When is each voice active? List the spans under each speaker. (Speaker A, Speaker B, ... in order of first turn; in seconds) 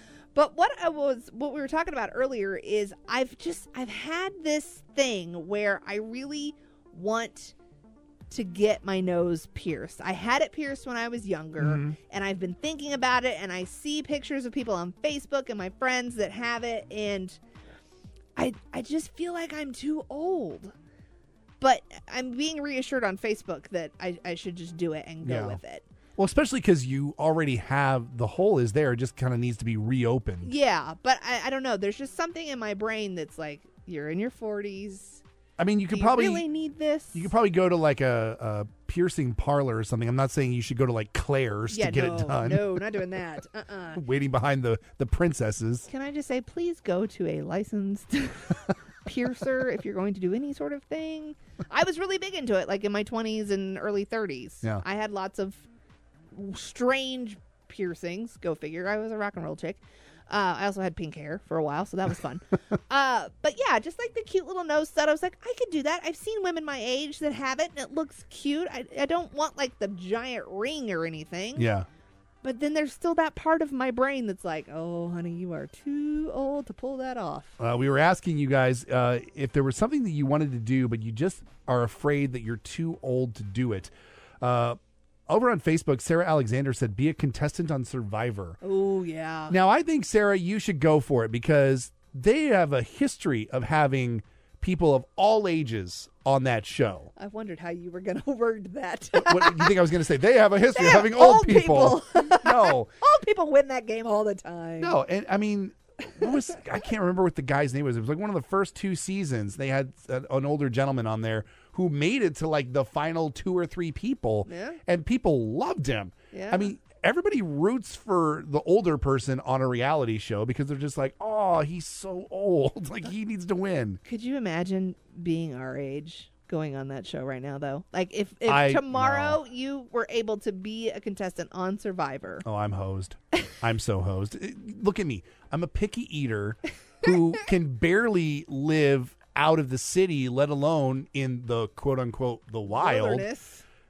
Speaker A: 0.3-7.5, 8.3-17.4, 18.4-20.7, 21.6-25.8, 30.4-35.2, 35.9-37.3, 41.7-44.0, 45.9-55.6, 56.3-71.7, 72.4-77.5, 88.6-89.5, 97.2-99.8, 100.7-105.0, 114.5-114.8, 116.3-116.7, 124.0-132.4, 142.6-143.6
Speaker B: 11.6-11.9, 25.2-25.6, 26.2-30.5, 35.6-36.4, 37.1-42.8, 44.0-45.9, 71.5-71.8, 77.6-88.6, 89.5-97.1, 99.1-102.9, 104.8-124.0, 128.5-129.4, 132.4-143.3